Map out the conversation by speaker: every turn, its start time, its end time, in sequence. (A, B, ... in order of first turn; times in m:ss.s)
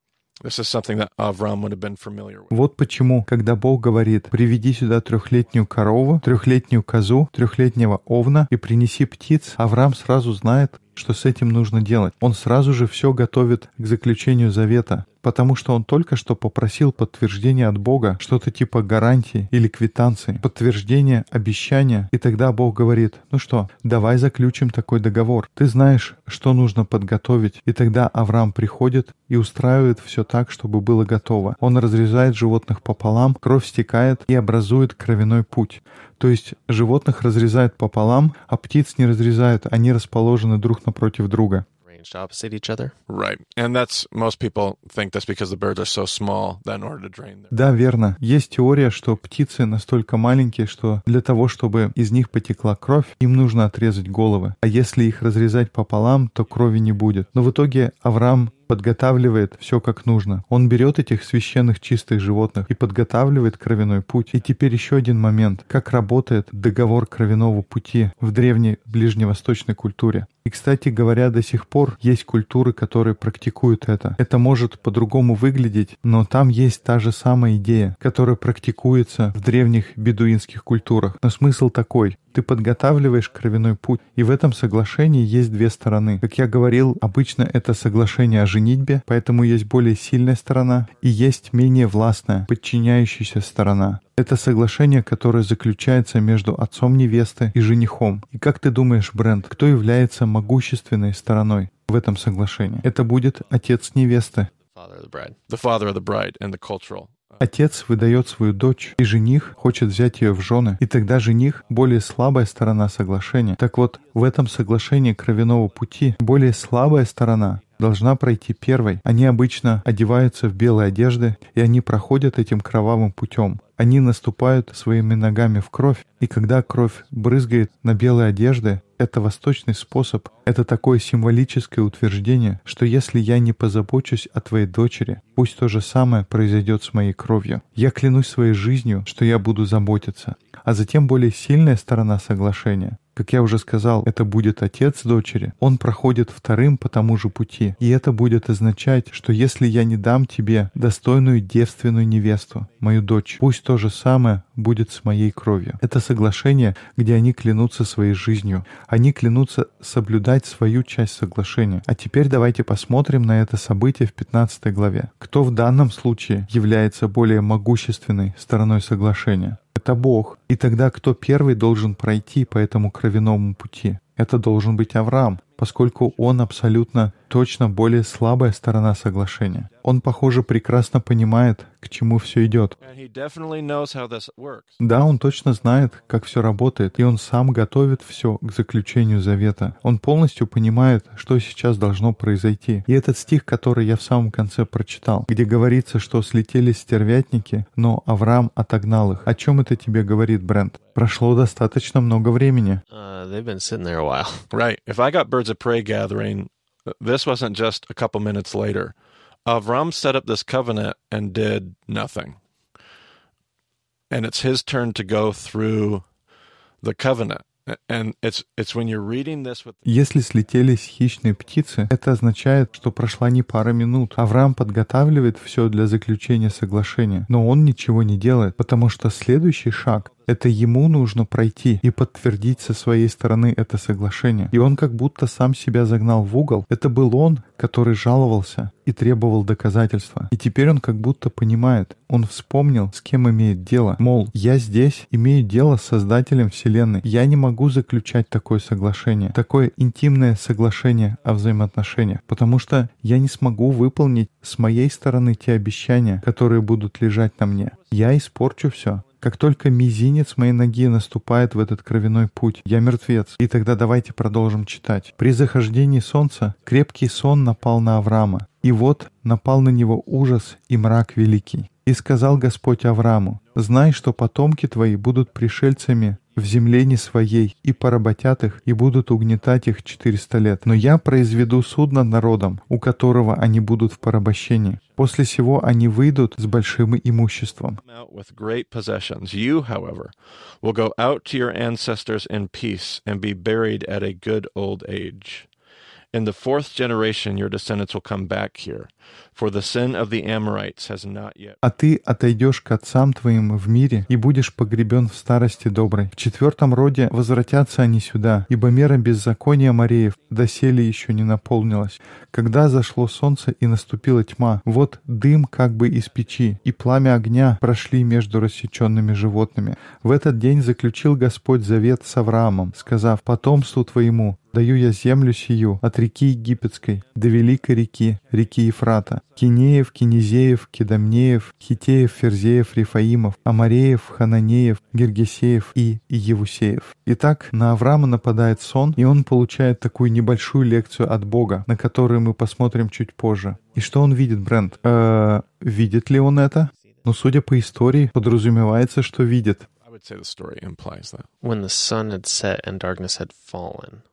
0:00.4-0:02.5 A
0:02.5-0:41.6 B
0:41.9-0:43.0 C
0:43.1-0:47.5 A
0:47.5-1:44.5 B
1:44.8-1:45.4 C
1:45.5-1:47.3 A
1:47.4-3:02.8 B
3:02.8-3:04.8 A
3:04.8-3:22.8 B
3:22.9-3:24.5 C
3:24.5-3:28.9 A
3:29.5-3:32.4 A
3:34.1-3:36.0 A
3:36.8-3:39.9 A
3:39.8-4:47.8 B
4:47.9-4:55.5 A
4:56.1-5:01.6 A
5:01.6-5:49.7 B
5:49.9-5:51.3 A
5:51.4-5:54.0 C